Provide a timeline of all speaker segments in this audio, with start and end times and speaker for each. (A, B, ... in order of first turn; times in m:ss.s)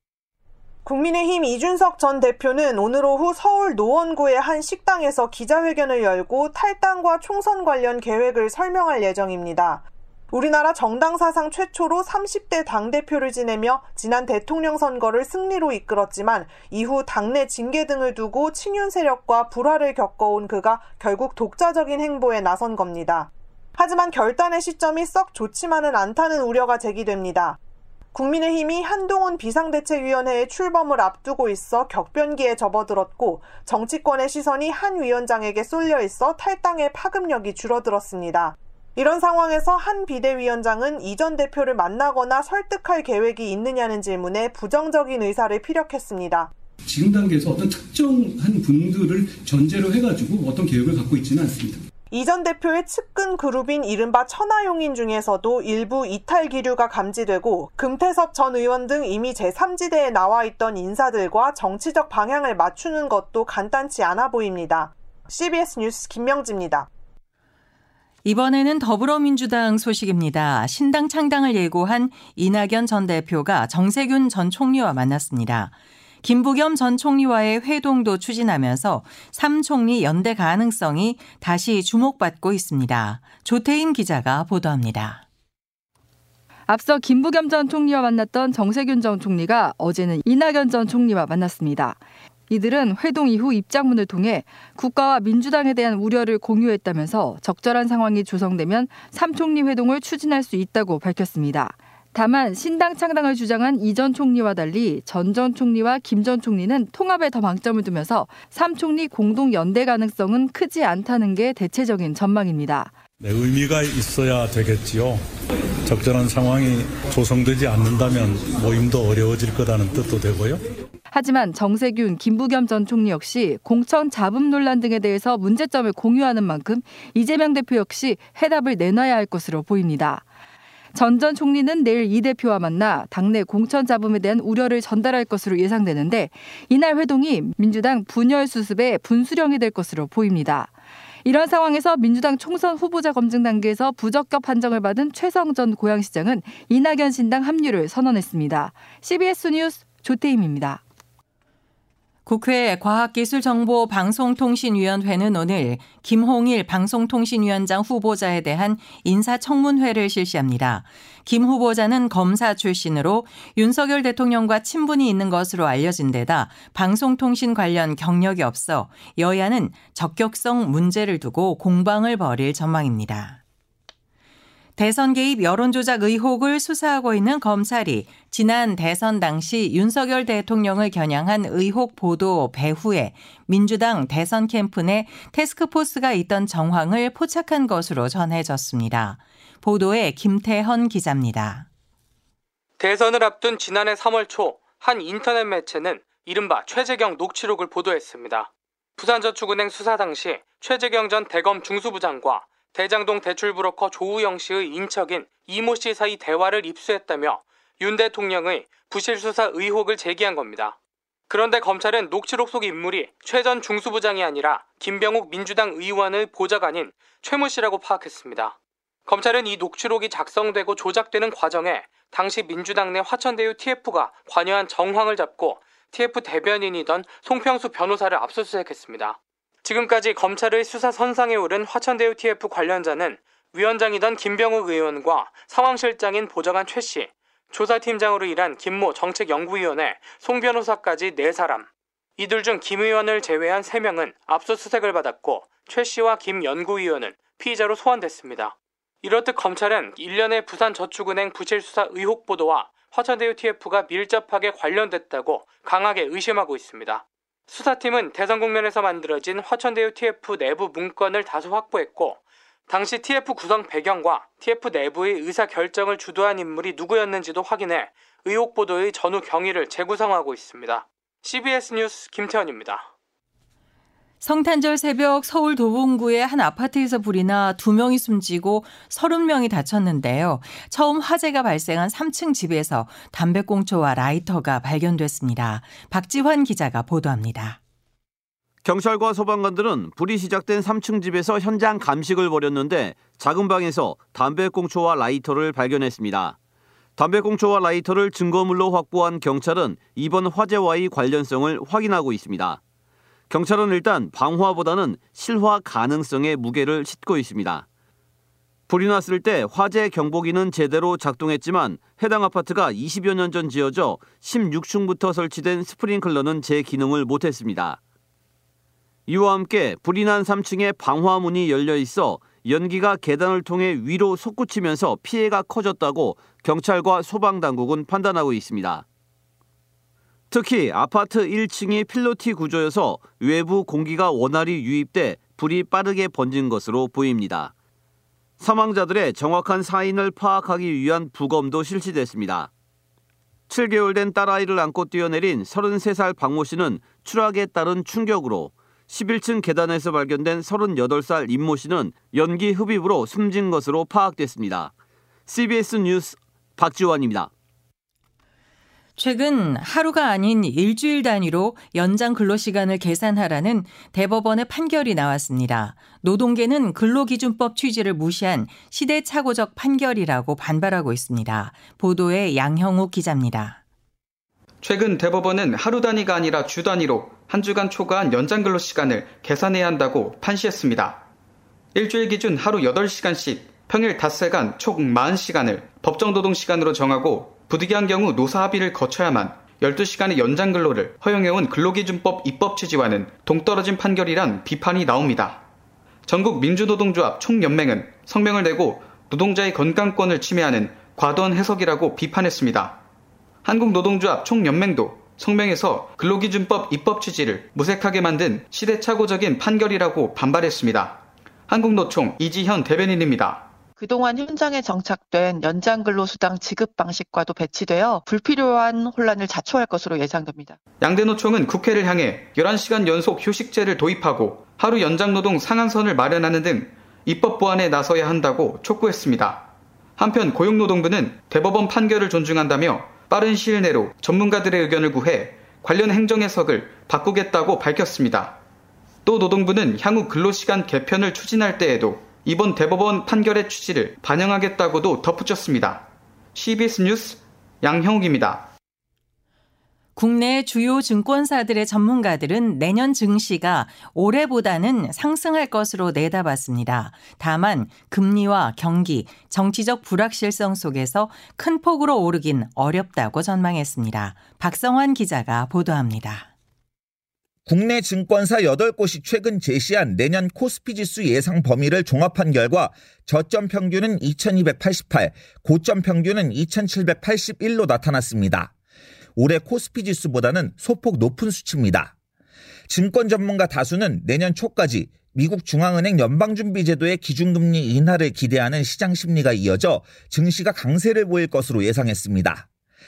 0:00.8-0:27.6 A
0:28.1-0:46.5 A
0:46.9-0:51.8 B
0:52.1-1:06.9 A
1:08.2-1:25.2 C
1:26.7-1:53.0 D
1:53.2-1:55.2 E
1:55.9-2:00.6 E
2:01.1-2:10.3 D
2:10.9-2:30.8 D
2:32.3-2:53.4 C
2:54.8-3:11.7 C
3:12.8-3:30.8 F
3:31.3-4:32.9 F
4:34.2-4:47.6 C
4:48.7-4:56.3 G
4:51.2-4:51.6 E
4:52.5-4:53.0 E
4:57.0-5:02.6 G
4:59.2-4:59.8 E
5:00.7-5:01.3 E
5:03.3-5:07.6 G
5:07.2-5:07.6 E
5:08.7-5:17.8 G
5:19.1-5:28.8 G
5:30.3-5:37.5 G
5:38.4-5:42.5 G
5:43.5-5:54.7 G
5:55.3-5:57.3 G
5:57.0-5:57.3 E
5:59.0-6:13.6 C
6:14.6-6:21.0 H
6:21.8-6:35.4 H
6:36.1-6:42.8 H
6:43.4-6:51.0 H
6:51.5-6:53.5 H
6:53.8-7:00.6 I
7:00.8-7:09.4 H
7:10.0-7:18.4 H
7:19.1-7:25.8 H
7:26.4-7:28.5 H
7:30.0-7:46.3 C
7:47.5-7:58.5 J
7:59.2-8:01.9 J
8:02.7-8:12.5 J